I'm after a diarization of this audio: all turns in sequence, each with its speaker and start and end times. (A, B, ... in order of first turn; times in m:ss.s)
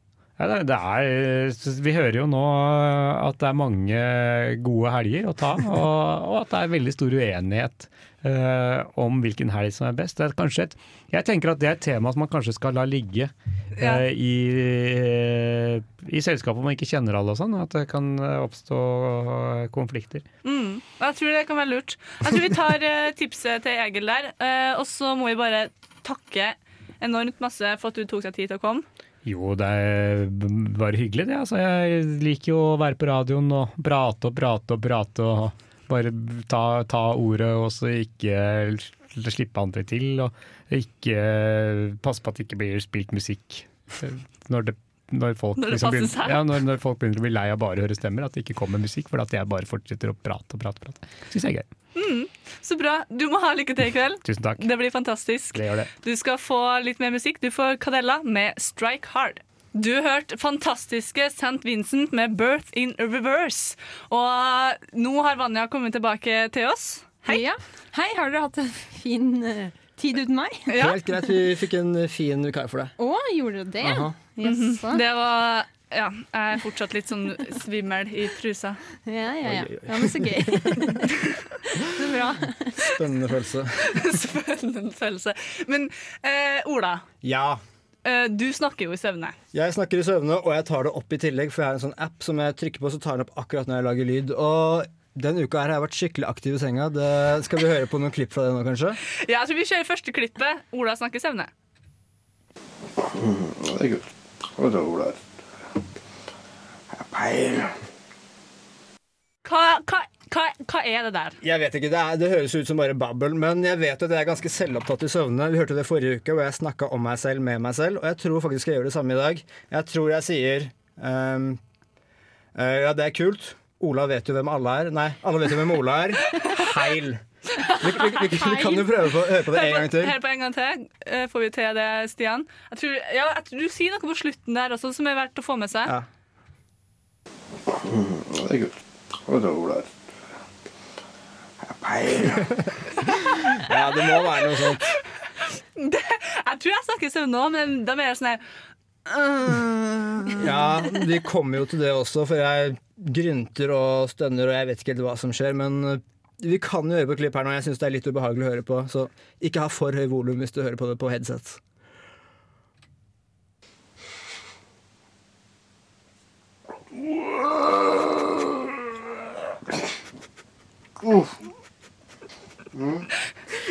0:00.4-0:20.2 A
0:13.8-0:14.0 B
0:20.4-0:28.8 B
0:29.2-0:51.7 A
0:45.6-0:46.4 B
0:52.0-1:07.4 B
0:54.2-0:54.7 A
0:55.5-0:55.9 A
1:07.3-1:10.7 C
1:10.7-1:11.0 B
1:10.7-1:12.9 D
1:13.0-1:15.0 C
1:13.8-1:14.2 D
1:14.4-1:18.8 B
1:19.1-1:22.9 C
1:19.4-1:20.9 D
1:22.8-1:24.1 D
1:23.8-1:27.0 B
1:27.2-1:27.6 D
1:28.0-1:29.4 B
1:29.5-1:39.0 D
1:39.1-1:41.5 B
1:43.0-1:45.2 E
1:46.9-1:47.7 E
1:49.4-1:51.4 B
1:51.4-2:01.6 D
2:02.5-2:10.2 D
2:07.6-2:08.8 B
2:09.5-2:16.0 B
2:17.7-2:19.9 E
2:21.6-2:22.5 E
2:23.5-2:24.9 D
2:23.7-2:24.6 B
2:25.4-2:28.4 B
2:29.1-2:30.4 B
2:30.4-2:41.6 D
2:47.1-2:48.2 E
2:51.0-2:51.3 E
2:52.7-2:53.1 E